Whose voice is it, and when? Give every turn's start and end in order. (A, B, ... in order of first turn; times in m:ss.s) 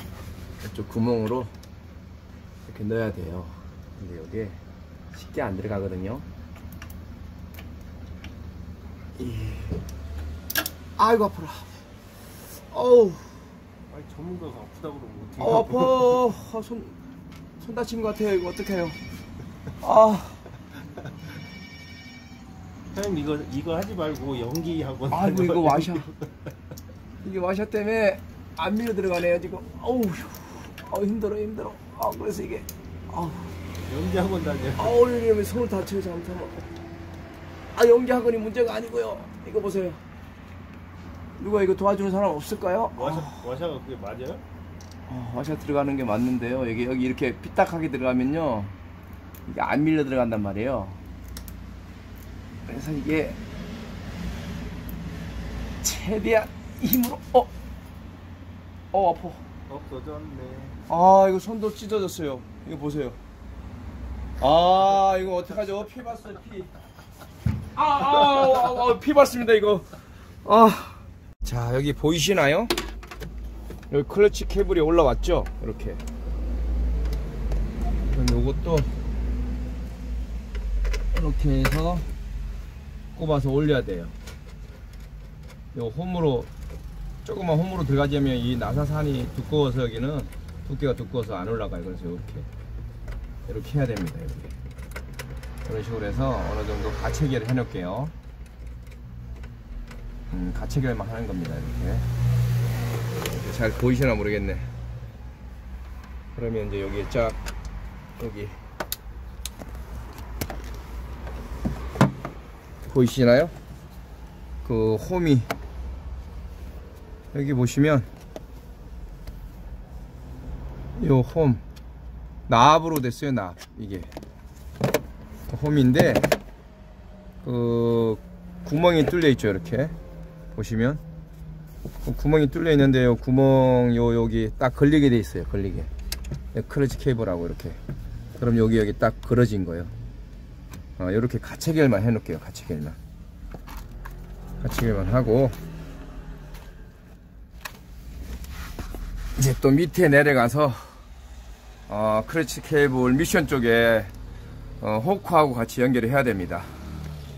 0:00.6-0:01.5 A
0:02.7-0:04.6 A
0:05.1-0:06.2 A
0:09.2-0:09.8 A
0:11.0-0:11.8 A
0:12.7-0:13.3 A
0:13.9-0:16.2 B
0:15.4-0:17.0 A
0:17.6-0:19.0 A
0:19.8-0:20.4 A
0:22.9-0:26.5 B
0:25.1-0:26.1 A
0:27.2-0:33.5 A
0:33.9-0:35.0 B
0:34.8-0:36.7 A
0:37.7-0:40.0 A
0:41.4-0:43.4 A
0:42.9-0:44.4 B
0:45.1-0:48.7 A
0:49.5-0:51.0 A
0:52.6-0:53.4 A
0:55.8-0:57.5 A
0:58.9-0:59.4 A
0:59.7-1:00.8 B
1:00.9-1:03.2 A
1:04.4-1:06.7 A
1:07.8-1:09.9 A
1:10.4-1:12.7 A
1:13.9-1:16.0 A
1:18.1-1:18.9 A
1:21.1-1:22.1 A
1:23.1-1:24.2 A
1:25.7-1:26.5 A
1:27.2-1:32.5 A
1:33.5-1:34.5 A
1:35.6-1:38.1 A
1:40.3-1:42.0 A
1:43.3-1:44.7 A
1:46.3-1:47.4 A
1:48.2-1:48.6 A
1:52.9-1:53.5 A
1:54.6-1:55.5 A
1:57.3-1:58.1 A
2:01.0-2:01.6 A
2:02.5-2:04.1 A
2:05.5-2:06.3 A
2:07.4-2:09.9 A
2:10.5-2:11.0 A
2:12.0-2:15.9 A
2:16.5-2:17.8 A
2:18.4-2:19.9 A
2:21.0-2:23.0 A
2:24.6-2:25.6 A
2:29.4-2:30.8 A
2:31.9-2:34.1 A
2:34.8-2:36.7 A